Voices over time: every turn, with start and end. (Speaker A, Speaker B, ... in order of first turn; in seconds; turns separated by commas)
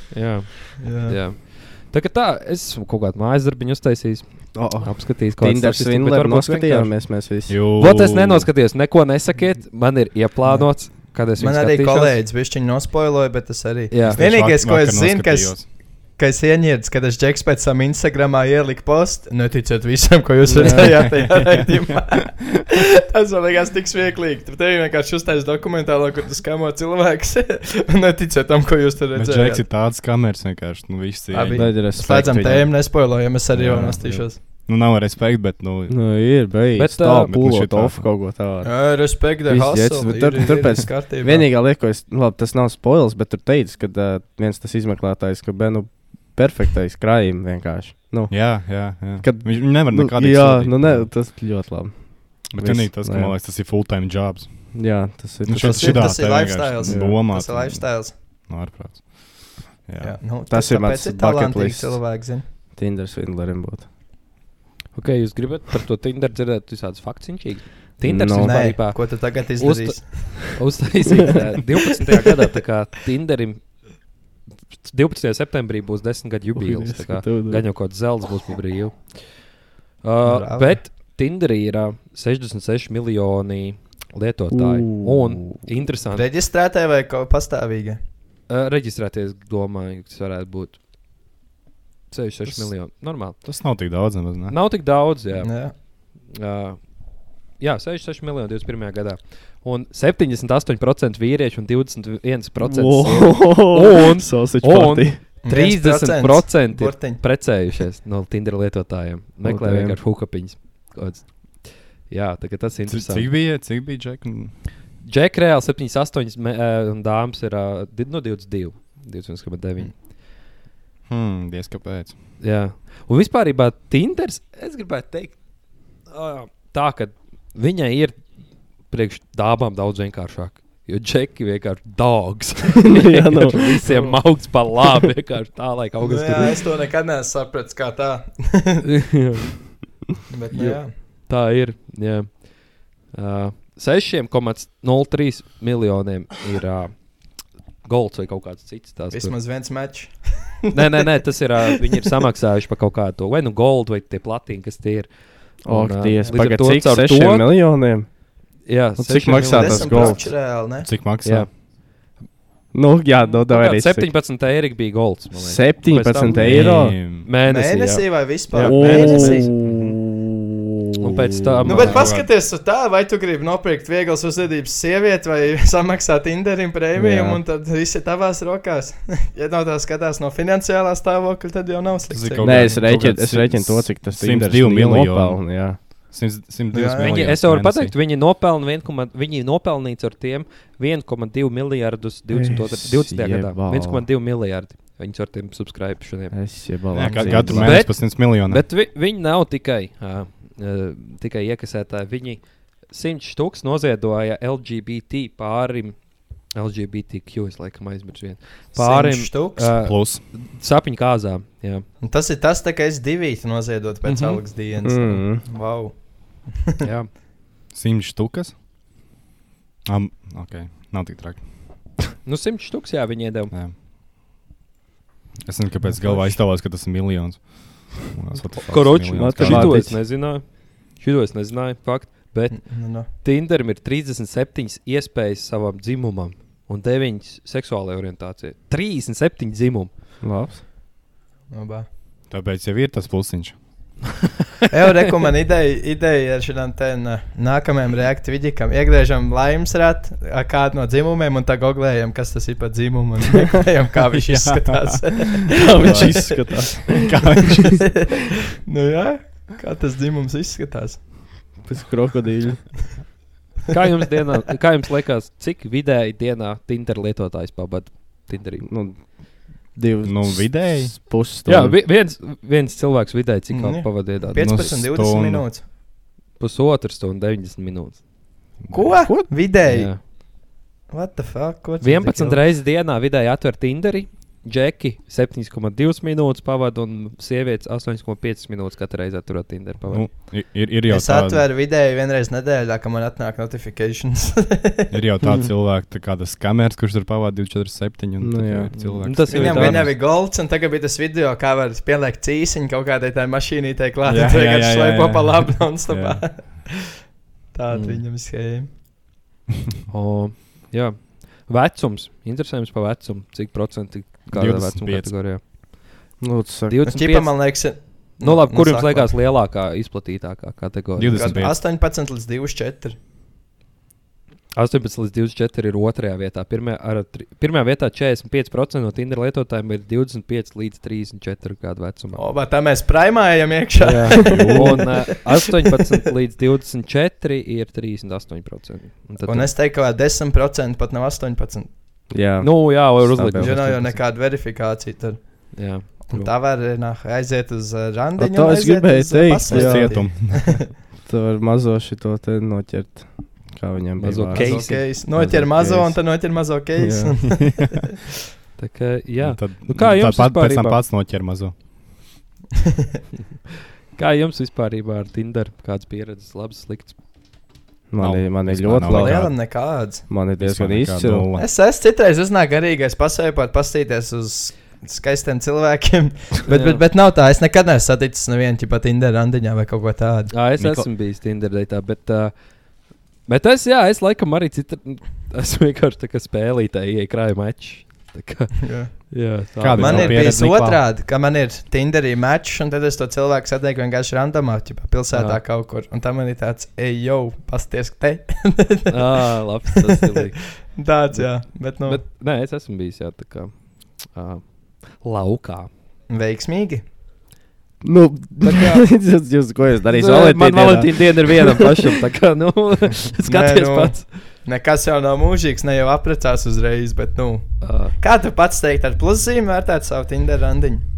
Speaker A: 0.1-7.2, Speaker B: 0.8-1.2, Speaker C: 4.5-7.6, Speaker D: 7.5-8.5, Speaker A: 7.8-12.2, Speaker B: 10.5-29.6, Speaker A: 13.9-14.2, Speaker D: 14.0-15.7, Speaker C: 20.4-21.0, Speaker D: 21.1-21.5, Speaker D: 29.1-32.0, Speaker B: 31.3-34.4, Speaker C: 31.5-34.2, Speaker D: 33.6-36.4, Speaker C: 35.9-53.3, Speaker A: 36.8-37.4, Speaker D: 37.2-38.1, Speaker B: 38.6-41.5, Speaker D: 48.3-51.1, Speaker D: 52.5-60.2, Speaker C: 54.7-57.2, Speaker B: 55.5-58.1, Speaker B: 60.0-62.4, Speaker C: 60.5-62.2, Speaker C: 62.7-63.9, Speaker A: 64.9-74.0, Speaker C: 68.0-68.8, Speaker B: 68.4-70.5, Speaker A: 74.8-86.2, Speaker C: 76.5-77.9, Speaker B: 80.2-80.8, Speaker C: 84.5-85.6, Speaker B: 86.1-88.0, Speaker A: 88.5-90.8, Speaker A: 92.1-93.9, Speaker D: 93.3-95.1, Speaker A: 94.5-113.3, Speaker B: 95.4-95.7, Speaker C: 102.6-105.2, Speaker B: 105.4-107.2, Speaker C: 109.4-110.0, Speaker D: 112.9-114.5, Speaker A: 115.0-120.0, Speaker D: 121.1-122.2, Speaker A: 122.4-128.3, Speaker A: 128.8-136.6, Speaker C: 132.9-133.8, Speaker B: 133.9-134.1, Speaker B: 136.0-138.8, Speaker A: 138.9-139.6, Speaker B: 140.3-140.9, Speaker A: 140.5-149.3, Speaker B: 149.1-150.8, Speaker A: 150.7-157.5, Speaker C: 155.6-158.3, Speaker A: 158.6-160.2, Speaker C: 159.0-160.3, Speaker B: 159.4-160.9, Speaker D: 160.8-161.5, Speaker A: 161.2-161.6, Speaker C: 162.7-164.1, Speaker A: 163.2-169.9, Speaker C: 165.3-167.0, Speaker D: 166.4-167.3, Speaker B: 167.4-169.5, Speaker C: 168.6-169.9, Speaker A: 171.0-172.1, Speaker B: 171.7-182.9, Speaker D: 171.7-172.3, Speaker C: 176.9-177.4, Speaker D: 182.1-187.9, Speaker C: 182.4-185.8, Speaker B: 186.7-187.1, Speaker A: 187.0-196.4, Speaker C: 192.3-194.1, Speaker C: 196.3-197.9, Speaker D: 196.9-198.7, Speaker A: 197.1-211.8, Speaker B: 208.7-209.7, Speaker D: 209.8-210.2, Speaker B: 212.0-216.8, Speaker A: 214.1-214.4, Speaker C: 214.8-215.4, Speaker A: 216.8-217.1, Speaker D: 217.7-218.6, Speaker D: 219.8-221.5, Speaker A: 222.2-223.5, Speaker D: 225.4-230.0, Speaker B: 225.8-226.4, Speaker A: 228.5-239.9, Speaker C: 229.1-230.1, Speaker B: 232.5-233.1, Speaker C: 240.2-240.6, Speaker B: 241.5-241.9, Speaker D: 242.3-243.6, Speaker B: 244.7-256.3, Speaker D: 254.2-258.0, Speaker C: 255.6-257.0, Speaker B: 257.5-261.0, Speaker C: 261.6-262.9, Speaker A: 263.7-268.7, Speaker C: 268.6-271.8, Speaker D: 270.0-271.0, Speaker A: 271.4-274.7, Speaker B: 273.5-275.6, Speaker D: 274.2-275.5, Speaker A: 276.4-278.0, Speaker D: 278.6-279.0, Speaker B: 278.7-282.4, Speaker A: 279.6-280.0, Speaker A: 281.8-290.1, Speaker D: 289.9-291.4, Speaker B: 290.9-294.9, Speaker D: 294.9-300.0, Speaker C: 298.2-298.9, Speaker A: 298.7-299.9, Speaker B: 299.3-307.0, Speaker D: 304.0-306.5, Speaker B: 307.5-308.7, Speaker A: 307.7-308.0, Speaker A: 309.9-315.7, Speaker D: 314.3-315.4, Speaker C: 316.2-316.8, Speaker A: 316.7-321.4, Speaker B: 316.9-319.2, Speaker D: 320.9-321.6, Speaker B: 321.1-323.0, Speaker A: 324.5-332.2, Speaker B: 332.1-335.0, Speaker A: 333.8-339.5, Speaker D: 334.3-334.9, Speaker B: 339.2-341.7, Speaker C: 342.1-343.8, Speaker A: 342.4-344.0, Speaker B: 343.4-350.6, Speaker A: 345.5-346.3, Speaker C: 348.2-356.2, Speaker D: 349.5-350.7, Speaker A: 354.0-354.9, Speaker B: 354.3-357.8, Speaker C: 356.8-357.5, Speaker A: 358.6-360.8, Speaker D: 359.2-361.7, Speaker A: 363.9-366.9, Speaker C: 367.9-371.3, Speaker D: 368.0-369.4, Speaker B: 368.9-370.1, Speaker D: 370.4-371.5, Speaker B: 371.4-380.3, Speaker A: 376.5-376.8, Speaker A: 380.3-390.3, Speaker D: 380.6-380.9, Speaker B: 388.6-399.8, Speaker D: 389.6-390.8, Speaker A: 395.1-395.4, Speaker A: 398.9-400.6, Speaker B: 400.6-402.0, Speaker A: 401.1-405.7, Speaker B: 406.1-406.8, Speaker C: 407.8-411.7, Speaker A: 408.5-408.8, Speaker A: 409.9-414.1, Speaker B: 413.2-420.8, Speaker A: 417.6-417.9